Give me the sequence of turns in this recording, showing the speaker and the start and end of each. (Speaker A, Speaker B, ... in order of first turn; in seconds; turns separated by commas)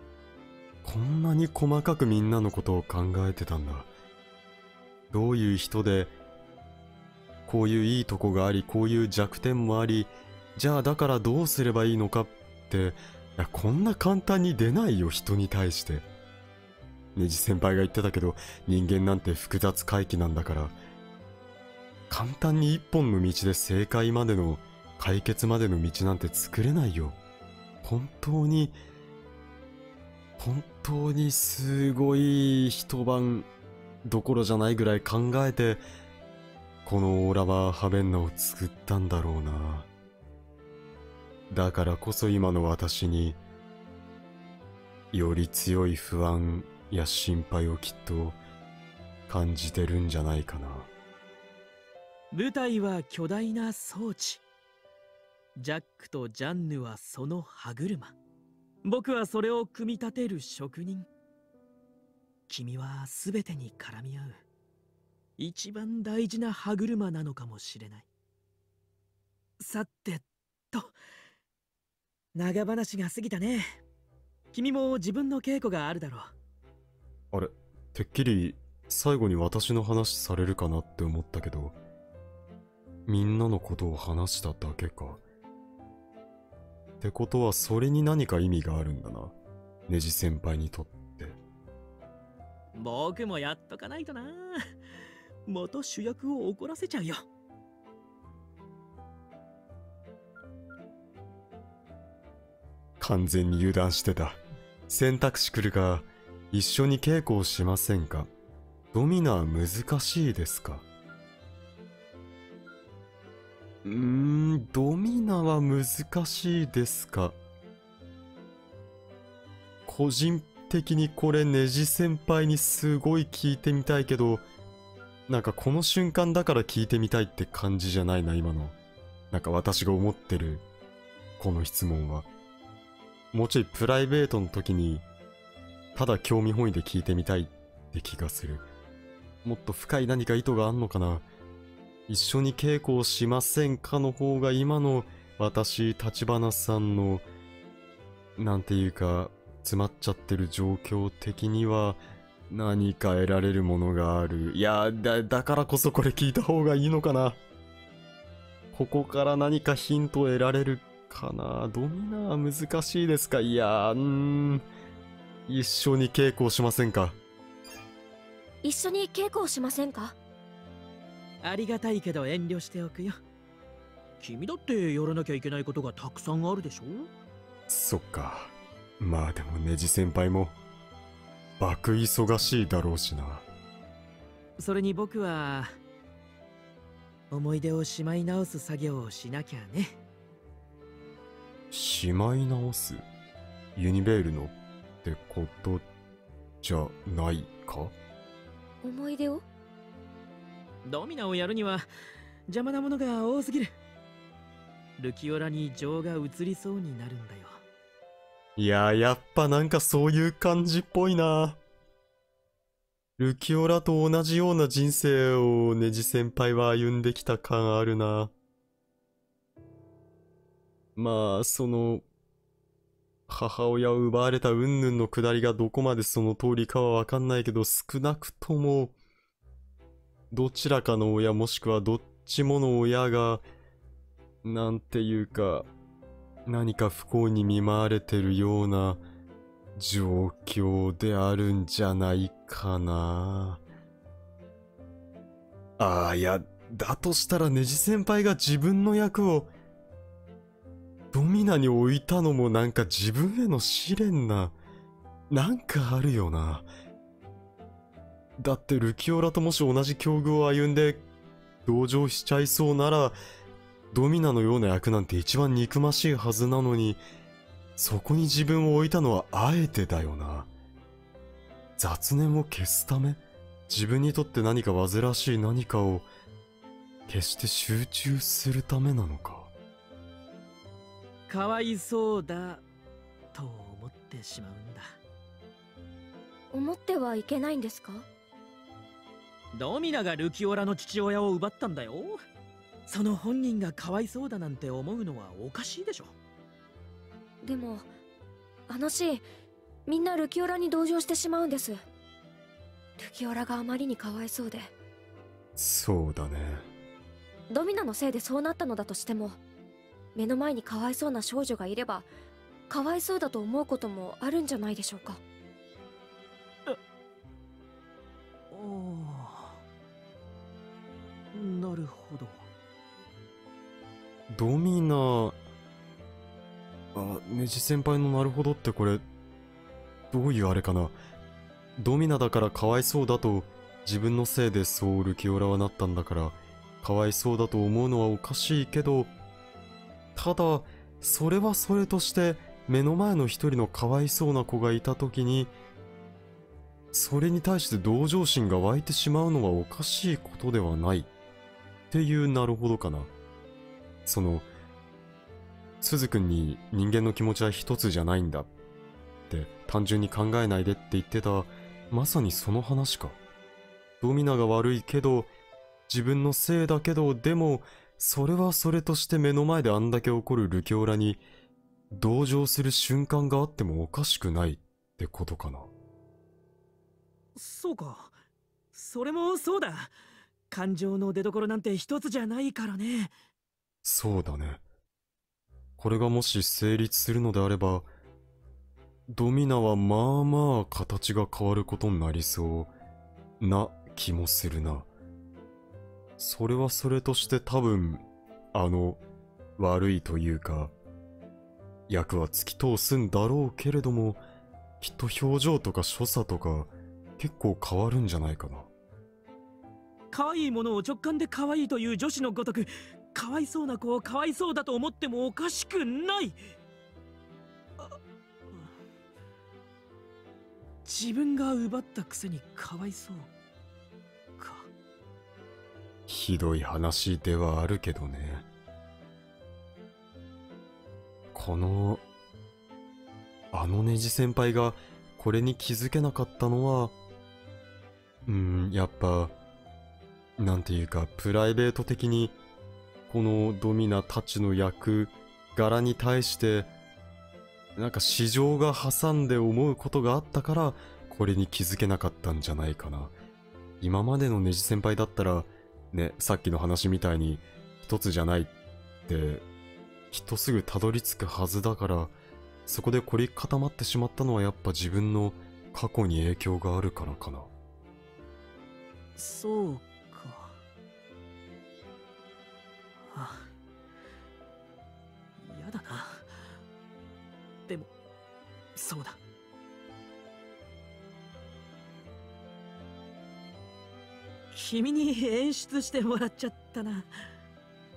Speaker A: 0.8-3.9, Speaker A: 5.1-6.1, Speaker A: 7.5-16.1, Speaker A: 17.1-20.8, Speaker A: 22.1-27.2, Speaker A: 27.8-28.8, Speaker A: 30.4-33.5, Speaker A: 34.0-35.8, Speaker A: 36.9-39.9, Speaker A: 41.5-43.4, Speaker A: 45.1-48.4, Speaker A: 49.3-50.9, Speaker B: 52.3-54.4, Speaker B: 55.6-58.2, Speaker B: 58.8-61.1, Speaker B: 62.5-64.4, Speaker B: 65.4-68.1, Speaker B: 69.6-70.9, Speaker B: 72.3-73.8, Speaker B: 74.5-76.3, Speaker A: 77.3-81.8, Speaker A: 83.1-85.2, Speaker A: 87.0-89.3, Speaker A: 89.9-91.4, Speaker B: 92.7-94.7, Speaker B: 95.5-97.2, Speaker A: 103.0-108.3, Speaker A: 108.9-110.9, Speaker A: 113.8-117.4, Speaker A: 119.9-124.4, Speaker A: 125.3-128.8, Speaker A: 129.3-130.7, Speaker A: 131.4-132.3, Speaker A: 133.3-135.1, Speaker A: 135.9-138.6, Speaker A: 139.4-141.2, Speaker A: 142.1-147.2, Speaker A: 148.4-157.4, Speaker A: 158.7-164.7, Speaker A: 165.5-167.2, Speaker C: 168.6-170.2, Speaker B: 171.4-173.2, Speaker B: 174.2-177.1, Speaker A: 177.7-180.6, Speaker A: 181.6-183.5, Speaker B: 184.6-185.8, Speaker B: 187.3-190.0, Speaker A: 191.7-193.1, Speaker A: 193.8-195.9, Speaker A: 196.6-197.9, Speaker C: 198.8-199.4, Speaker B: 200.8-201.9, Speaker B: 202.5-203.7, Speaker B: 205.0-207.6, Speaker A: 208.6-211.6, Speaker A: 213.2-218.3, Speaker A: 221.0-222.0, Speaker A: 223.3-228.9, Speaker A: 230.3-233.4, Speaker A: 234.4-235.7, Speaker A: 236.5-239.0, Speaker A: 239.8-243.6, Speaker A: 245.8-249.5, Speaker A: 251.1-254.6, Speaker A: 255.3-256.7, Speaker A: 258.4-261.1, Speaker A: 261.6-263.2, Speaker A: 263.9-267.0, Speaker A: 267.8-270.5, Speaker A: 271.8-276.1, Speaker A: 277.1-279.5, Speaker B: 281.3-282.6, Speaker B: 283.3-285.0, Speaker C: 286.5-288.1, Speaker B: 289.6-292.2, Speaker B: 292.9-296.1, Speaker C: 297.4-297.9, Speaker C: 298.7-299.3, Speaker C: 299.9-301.8, Speaker C: 303.0-304.7, Speaker A: 305.6-306.7, Speaker C: 307.5-309.4, Speaker C: 310.1-312.1, Speaker C: 312.7-315.2, Speaker B: 318.5-319.6, Speaker B: 321.3-322.5, Speaker A: 324.3-325.4, Speaker A: 326.9-329.0, Speaker A: 330.1-331.0, Speaker A: 331.8-339.1, Speaker A: 340.1-345.5, Speaker A: 346.9-351.1, Speaker A: 351.9-353.1, Speaker A: 354.1-354.5, Speaker A: 355.8-358.5, Speaker A: 359.3-363.2, Speaker A: 364.0-365.3, Speaker A: 365.9-371.2, Speaker A: 371.9-375.7, Speaker B: 377.4-378.2, Speaker B: 378.7-380.0, Speaker B: 380.5-383.1, Speaker A: 383.8-384.6, Speaker A: 385.8-387.9, Speaker A: 389.1-392.7, Speaker A: 393.4-394.9, Speaker A: 396.2-398.0, Speaker A: 398.5-399.0, Speaker A: 399.6-400.7, Speaker A: 401.9-404.2, Speaker A: 404.8-408.7, Speaker B: 410.1-416.4, Speaker B: 420.9-423.3, Speaker B: 424.4-424.7, Speaker A: 426.1-428.5, Speaker A: 431.3-432.0, Speaker A: 433.5-436.9, Speaker A: 438.3-439.3, Speaker A: 440.4-442.4, Speaker A: 443.1-446.7, Speaker A: 447.8-453.1, Speaker A: 453.8-458.5, Speaker A: 459.1-459.4, Speaker A: 460.1-462.1, Speaker A: 462.7-467.5, Speaker B: 469.2-470.6, Speaker B: 473.0-473.5, Speaker B: 475.4-476.6, Speaker B: 478.8-479.2, Speaker B: 484.5-487.1